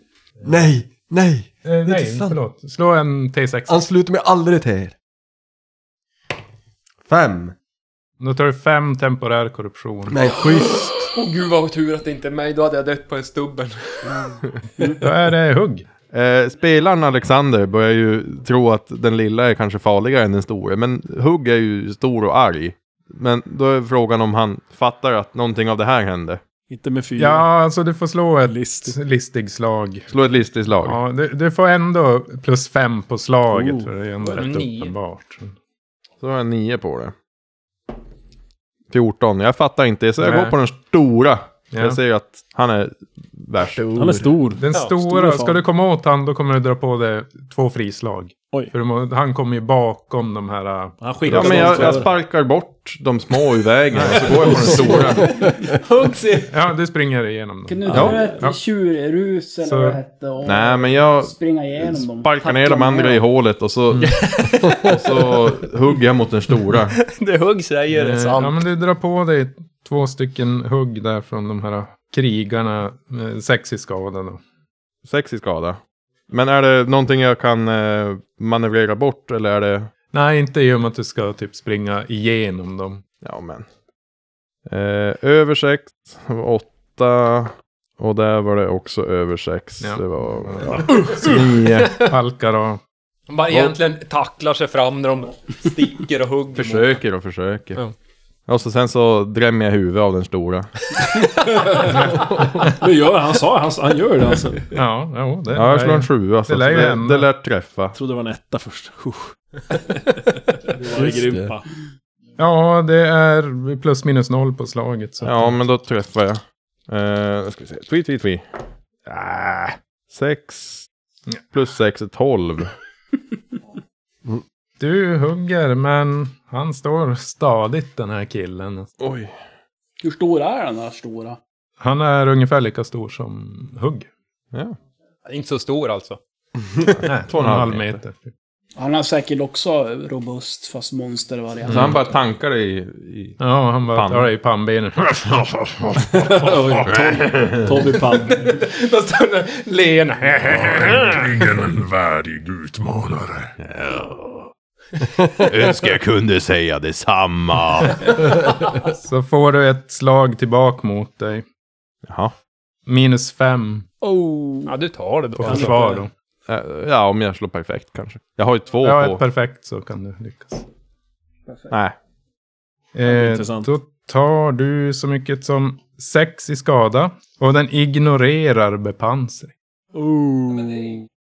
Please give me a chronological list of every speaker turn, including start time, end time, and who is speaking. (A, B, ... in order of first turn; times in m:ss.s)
0:00.4-0:02.4 A
0:01.6-0:03.8 B
0:03.7-0:04.9 A
0:07.0-0:07.5 A
0:08.2-0:10.2 B
0:10.1-0:11.1 A
0:10.4-0:14.3 C
0:14.0-0:15.0 D
0:15.0-0:15.9 B
0:16.1-0:26.4 E
0:26.7-0:27.5 F
0:27.2-0:30.1 B
0:28.4-0:29.0 F
0:30.1-0:31.0 E
0:30.8-0:35.5 B
0:33.5-0:33.9 F
0:34.2-0:34.9 C
0:36.2-0:37.1 E
0:38.9-0:43.9 E
0:40.2-0:40.6 B
0:41.7-0:42.0 B
0:43.6-0:44.3 A
0:44.0-0:45.6 F
0:44.6-0:52.0 B
0:51.0-0:52.2 F
0:51.3-0:55.5 E
0:53.9-0:55.4 B
0:54.4-0:54.8 F
0:55.2-0:56.5 C
0:56.5-0:58.6 B
0:57.6-1:03.2 D
0:57.9-0:58.2 E
0:57.9-0:58.4 F
0:59.6-1:00.0 B
1:00.4-1:07.0 E
1:03.9-1:04.2 B
1:04.0-1:05.0 C
1:06.9-1:08.6 C
1:07.9-1:14.4 B
1:15.0-1:19.9 E
1:20.1-1:23.0 B
1:23.2-1:23.6 E
1:24.7-1:32.1 E
1:29.8-1:32.8 B
1:33.3-1:37.0 C
1:36.5-1:37.8 E
1:38.5-1:40.7 E
1:41.0-1:42.0 C
1:41.6-1:44.7 F
1:41.8-1:42.7 B
1:44.7-1:47.3 B
1:45.5-1:48.0 E
1:47.9-1:49.8 F
1:50.5-1:51.6 F
1:50.9-1:51.5 A
1:52.4-1:55.6 B
1:55.2-1:58.4 E
1:59.1-2:00.9 E
2:01.5-2:02.7 E
2:04.8-2:08.9 B
2:09.0-2:09.3 E
2:10.0-2:11.4 D
2:11.8-2:14.1 B
2:15.2-2:16.2 C
2:16.8-2:18.0 E
2:17.0-2:18.3 B
2:18.8-2:22.0 D
2:21.7-2:23.4 E
2:21.7-2:22.0 B
2:23.4-2:25.3 B
2:23.9-2:24.3 E
2:25.2-2:27.2 G
2:26.2-2:28.6 F
2:28.4-2:31.4 C
2:30.4-2:33.5 G
2:33.6-2:34.5 E
2:35.3-2:38.1 E
2:38.7-2:41.4 B
2:42.1-2:42.3 E
2:42.9-2:43.9 B
2:44.0-2:44.7 F
2:44.6-2:46.0 C
2:45.4-2:46.1 B
2:45.4-2:46.0 F
2:46.5-2:49.2 E
2:48.8-2:50.6 B
2:51.5-2:51.8 D
2:51.7-2:52.0 E
2:52.9-2:59.5 B
2:53.1-2:53.7 F
2:59.9-3:01.0 F